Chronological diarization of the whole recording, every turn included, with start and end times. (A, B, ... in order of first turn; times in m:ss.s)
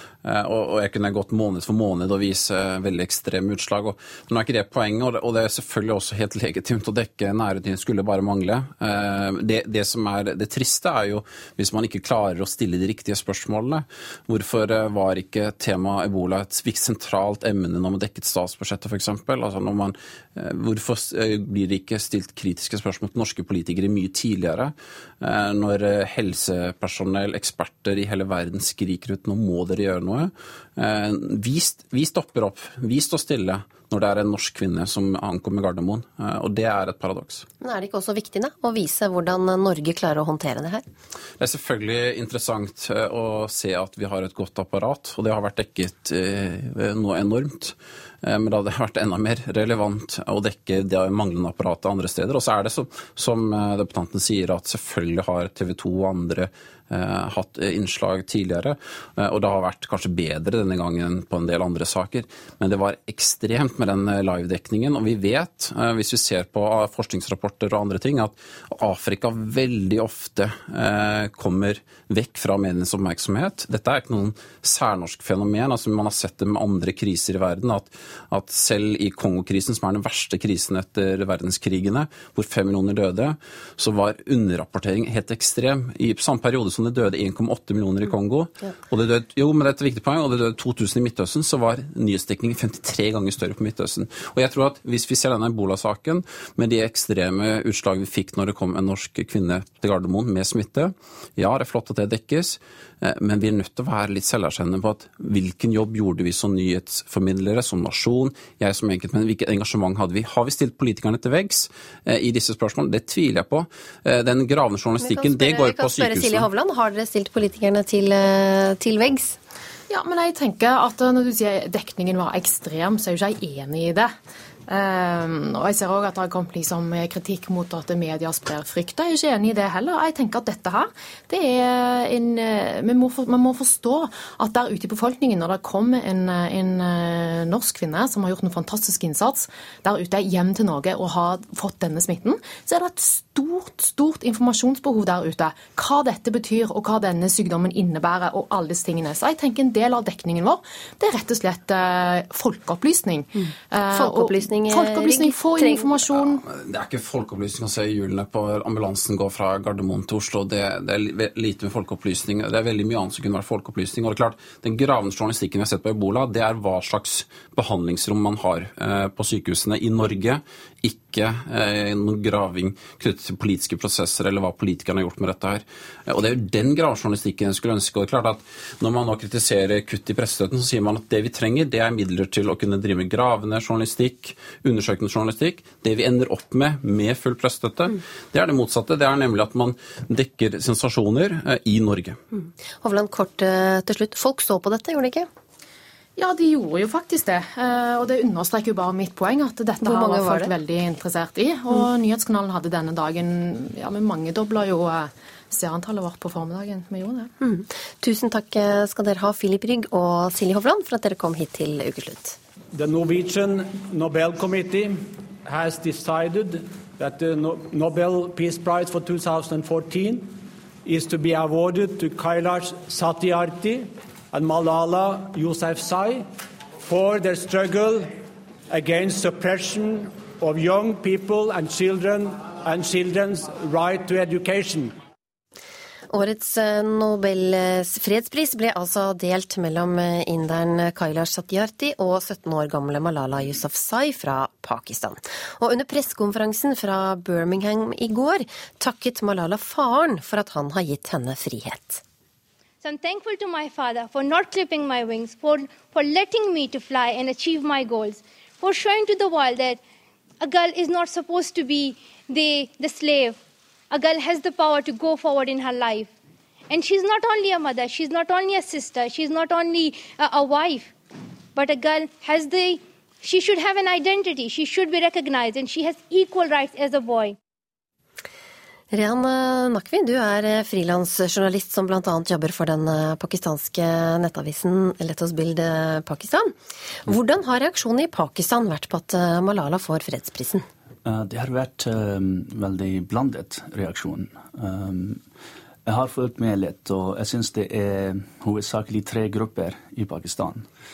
0:00.2-0:37.4 A
0:37.6-0:40.8 B
0:41.4-1:56.5 A
1:55.0-1:59.4 B
1:59.9-2:04.1 C
2:04.7-2:36.4 C
2:33.4-2:36.0 B
2:36.4-3:12.2 A
3:12.3-3:15.3 B
3:16.2-3:27.3 C
3:19.8-3:20.5 B
3:27.4-3:32.4 B
3:32.7-3:46.3 D
3:46.8-3:48.1 D
3:48.7-3:54.9 D
3:56.1-4:12.0 B
4:12.8-4:19.8 E
4:20.4-4:23.4 E
4:23.9-4:26.1 E
4:26.7-4:30.9 E
4:31.5-4:37.4 E
4:38.9-4:50.6 B
4:51.0-4:55.2 F
4:55.8-5:00.7 F